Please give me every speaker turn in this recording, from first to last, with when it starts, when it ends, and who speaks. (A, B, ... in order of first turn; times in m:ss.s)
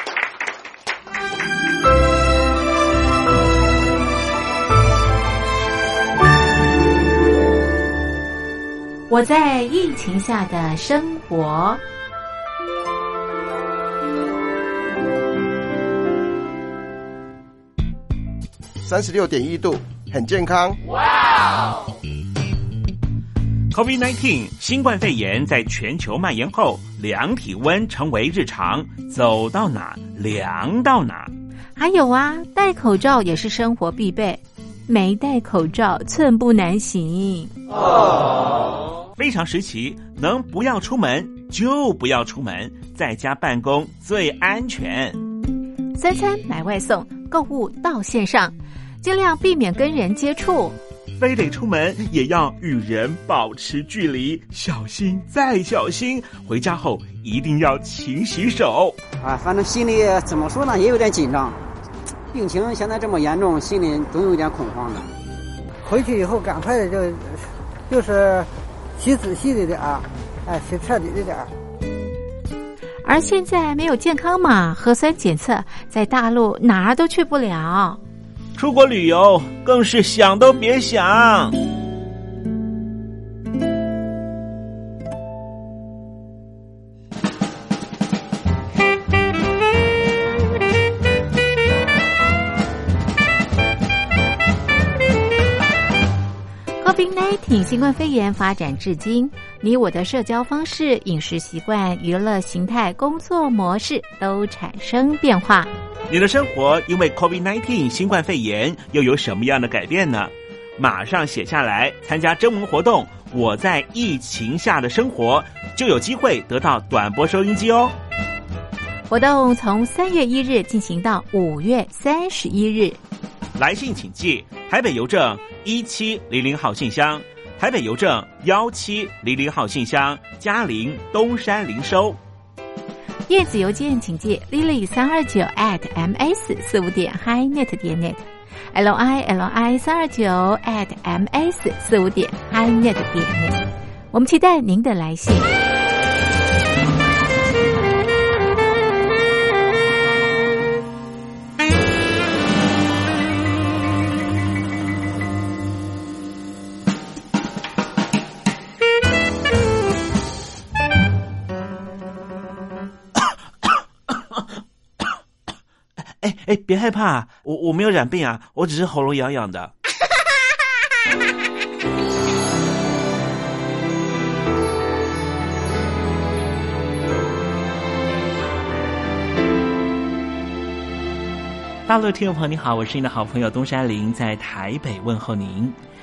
0:09.1-0:11.8 A
0:18.8-0:20.8 B
0:23.7-0:31.3 C
0:31.8-0:37.5 A
0:39.2-0:45.2 C
0:46.0-0:50.8 A
0:51.2-0:59.0 C
0:59.2-1:01.6 D
1:02.3-1:05.1 D
1:05.8-1:11.5 E
1:13.0-1:18.0 A
1:18.6-1:21.6 C
1:36.8-1:45.7 A
1:46.1-1:57.9 C
1:59.1-2:03.0 A
2:03.6-2:12.2 C
2:13.3-2:25.5 A
2:46.2-2:49.7 C
3:01.9-3:05.8 C